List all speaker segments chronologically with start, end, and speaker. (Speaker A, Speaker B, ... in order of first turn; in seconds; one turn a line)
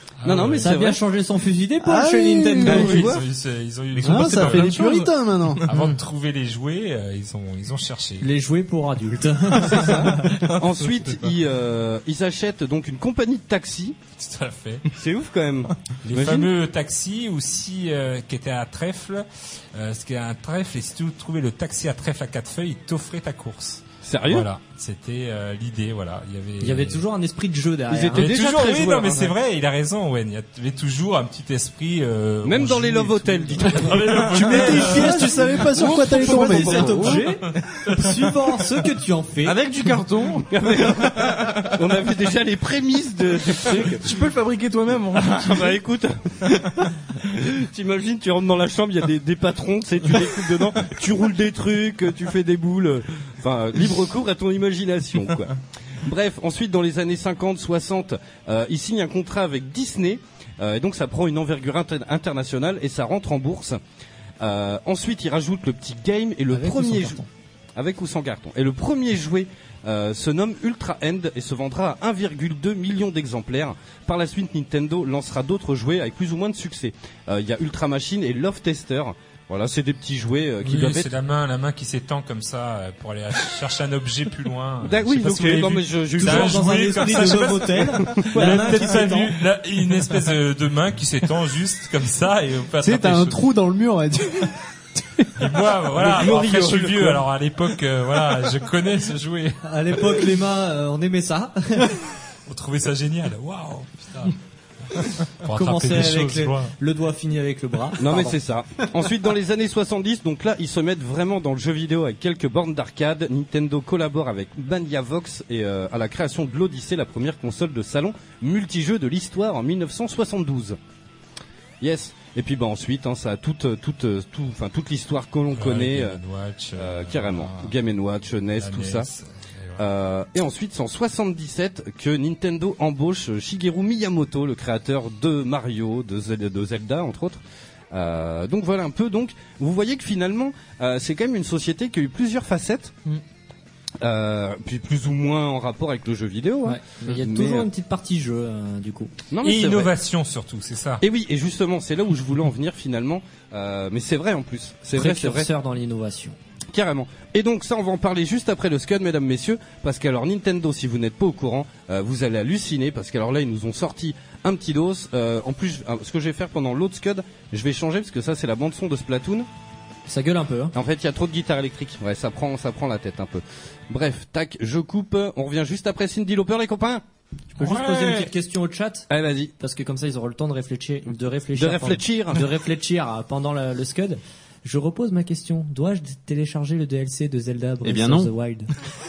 Speaker A: 0.2-0.7
Speaker B: 0.2-1.0
Speaker C: 0.6-3.1
Speaker D: 1.8-3.1
Speaker B: 2.6-3.2
Speaker A: 2.6-4.8
Speaker D: 4.0-5.7
Speaker E: 4.0-5.0
Speaker E: 5.6-5.9
Speaker A: 5.6-8.3
Speaker C: 8.2-10.4
Speaker B: 9.6-14.0
Speaker A: 10.8-11.3
Speaker A: 14.2-14.8
Speaker B: 14.9-16.5
Speaker A: 16.0-27.0
Speaker B: 24.0-24.5
Speaker C: 26.6-28.3
Speaker B: 27.9-29.3
Speaker A: 28.1-35.4
Speaker B: 32.4-35.0
Speaker D: 34.2-37.2
Speaker C: 34.7-35.3
Speaker B: 35.7-37.2
Speaker C: 35.8-39.6
Speaker E: 36.9-37.2
Speaker E: 39.4-40.5
Speaker B: 40.5-44.1
Speaker E: 41.2-41.7
Speaker E: 43.6-45.8
Speaker B: 45.1-63.8
Speaker B: 64.4-67.2
Speaker C: 66.5-67.3
Speaker B: 67.8-81.1
Speaker A: 80.6-93.4
Speaker B: 84.8-86.8
Speaker C: 86.2-89.3
Speaker B: 88.1-88.6
Speaker D: 92.8-95.5
Speaker A: 95.4-100.1
Speaker B: 96.0-97.2
Speaker C: 99.6-102.0
Speaker A: 102.5-104.3
Speaker A: 105.0-106.7
Speaker C: 105.5-108.4
Speaker B: 108.0-120.8
Speaker B: 121.8-126.2
Speaker A: 125.5-127.7
Speaker B: 126.8-129.1
Speaker A: 128.6-129.8
Speaker B: 129.8-137.4
Speaker B: 137.9-142.9
Speaker B: 144.0-147.7
Speaker C: 146.6-149.1
Speaker B: 149.3-149.9
Speaker A: 149.4-151.0
Speaker B: 151.0-155.5
Speaker C: 154.9-156.4
Speaker B: 156.7-169.5
Speaker C: 170.1-170.7
Speaker B: 170.7-177.0
Speaker C: 177.5-179.1
Speaker B: 177.6-178.2
Speaker B: 179.1-179.5
Speaker C: 179.6-188.7
Speaker B: 181.6-182.4
Speaker D: 187.8-188.3